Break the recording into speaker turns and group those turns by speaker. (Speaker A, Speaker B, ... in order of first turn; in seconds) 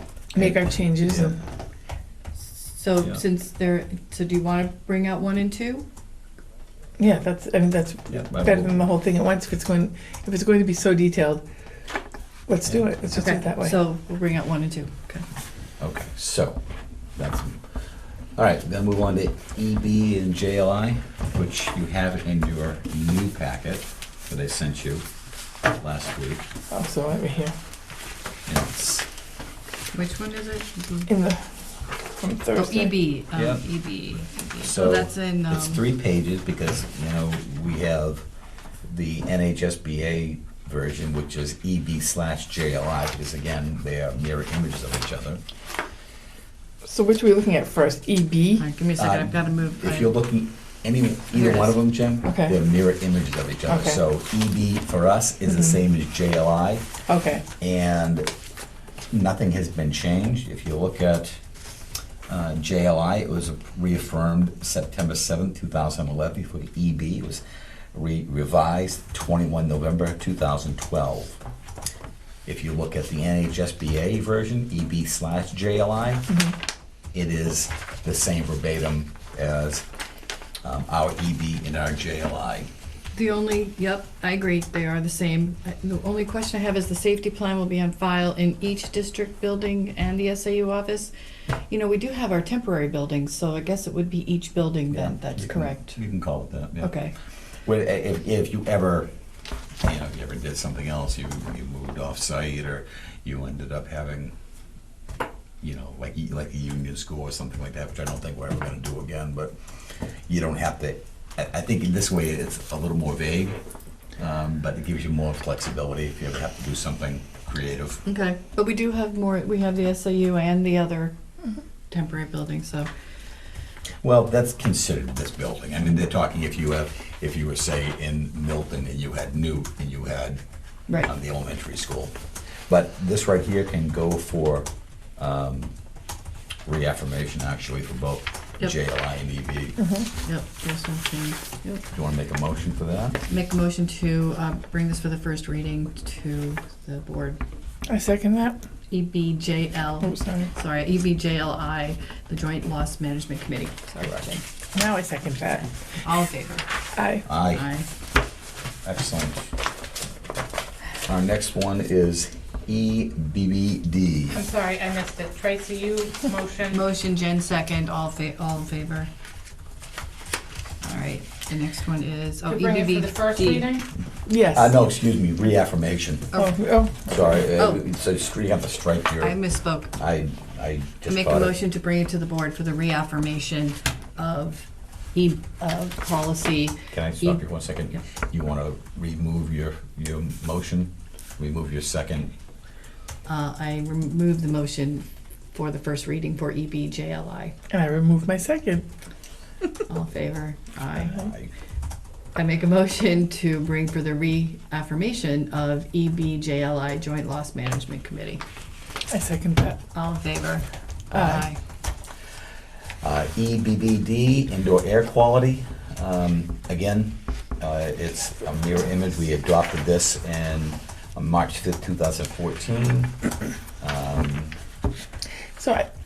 Speaker A: 0.3-1.4, 7.0-11.4, 12.5-13.8, 26.7-27.5, 31.1-31.5, 32.2-33.0, 46.8-48.6, 52.2-52.5, 53.7-54.0, 55.5-55.8, 57.1-57.4, 76.3-76.5, 139.8-140.1, 147.9-148.6, 150.0-150.5, 154.7-155.7, 156.9-157.2, 174.2-174.7, 176.3-177.1, 197.7-198.8, 209.1-209.8, 211.1-211.4, 225.6-225.8
Speaker B: 0.3-1.3, 8.1-8.7, 12.7-13.0, 15.8-16.6, 17.2-17.6, 18.4-25.0, 25.7-26.4, 28.4-29.1, 33.3-38.2, 38.9-45.4, 49.0-56.9, 57.6-58.3, 59.1-61.4, 62.3-67.4, 67.9-71.4, 72.4-76.3, 77.1-79.8, 80.6-82.7, 94.9-96.9, 97.7-99.1, 99.8-104.3, 105.6-109.5, 110.3-113.6, 114.2-118.0, 124.0-130.4, 130.9-134.7, 135.2-135.7, 136.7-139.9, 141.9-143.2, 154.0-154.3, 157.2-157.7, 158.8-159.5, 161.1-164.4, 174.5-176.4, 177.0-181.6, 186.9-192.3, 201.1-201.5, 213.0-223.2, 223.8-224.6
Speaker C: 2.3-5.8, 13.1-15.2, 29.9-31.1, 32.5-35.8, 48.6-50.2, 51.3-51.9, 83.1-96.0, 96.8-97.1, 118.0-121.1, 121.9-122.9, 140.1-141.8, 143.3-147.4, 148.9-154.4, 156.0-156.6, 157.5-157.9, 166.7-169.1, 170.8-173.7, 176.3-176.6, 177.5-177.8, 179.2-179.9, 181.1-187.4, 193.2-197.5, 199.9-201.2, 202.3-208.4, 209.9-211.6
Speaker D: 164.4-166.8, 172.5-173.8